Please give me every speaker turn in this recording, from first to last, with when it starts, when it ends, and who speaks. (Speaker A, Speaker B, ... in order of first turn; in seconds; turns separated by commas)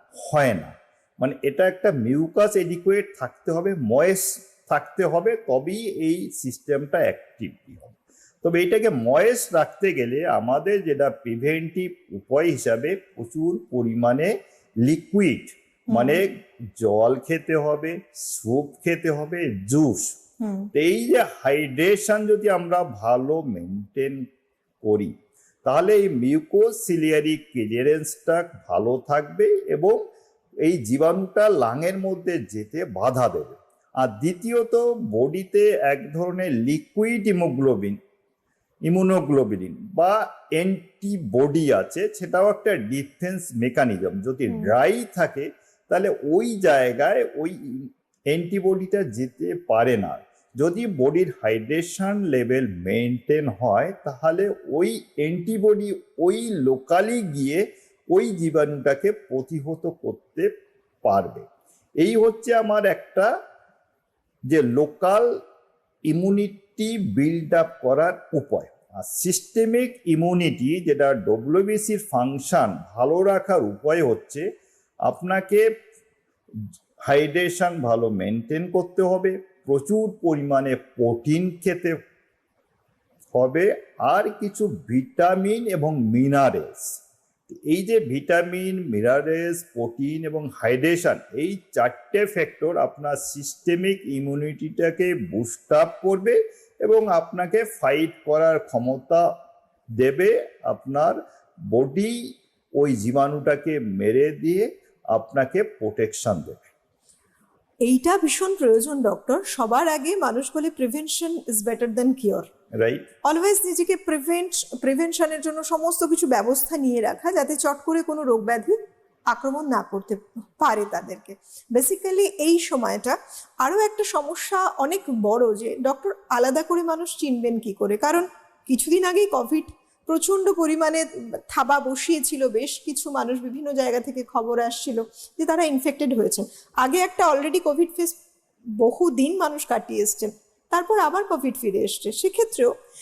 Speaker A: 0.2-20.2, Speaker B: 15.9-16.2, Speaker B: 20.4-20.7, Speaker A: 20.7-24.2, Speaker A: 24.8-30.0, Speaker A: 30.6-38.0, Speaker A: 38.9-60.5, Speaker A: 61.0-61.5, Speaker A: 62.0-63.3, Speaker A: 64.5-65.2, Speaker A: 66.1-74.4, Speaker A: 75.0-75.6, Speaker A: 77.0-81.9, Speaker A: 83.3-99.2, Speaker A: 100.0-101.2, Speaker A: 101.7-102.2, Speaker A: 102.8-106.7, Speaker B: 107.8-112.5, Speaker A: 112.8-113.0, Speaker B: 113.3-118.8, Speaker B: 119.3-138.2, Speaker B: 138.8-142.7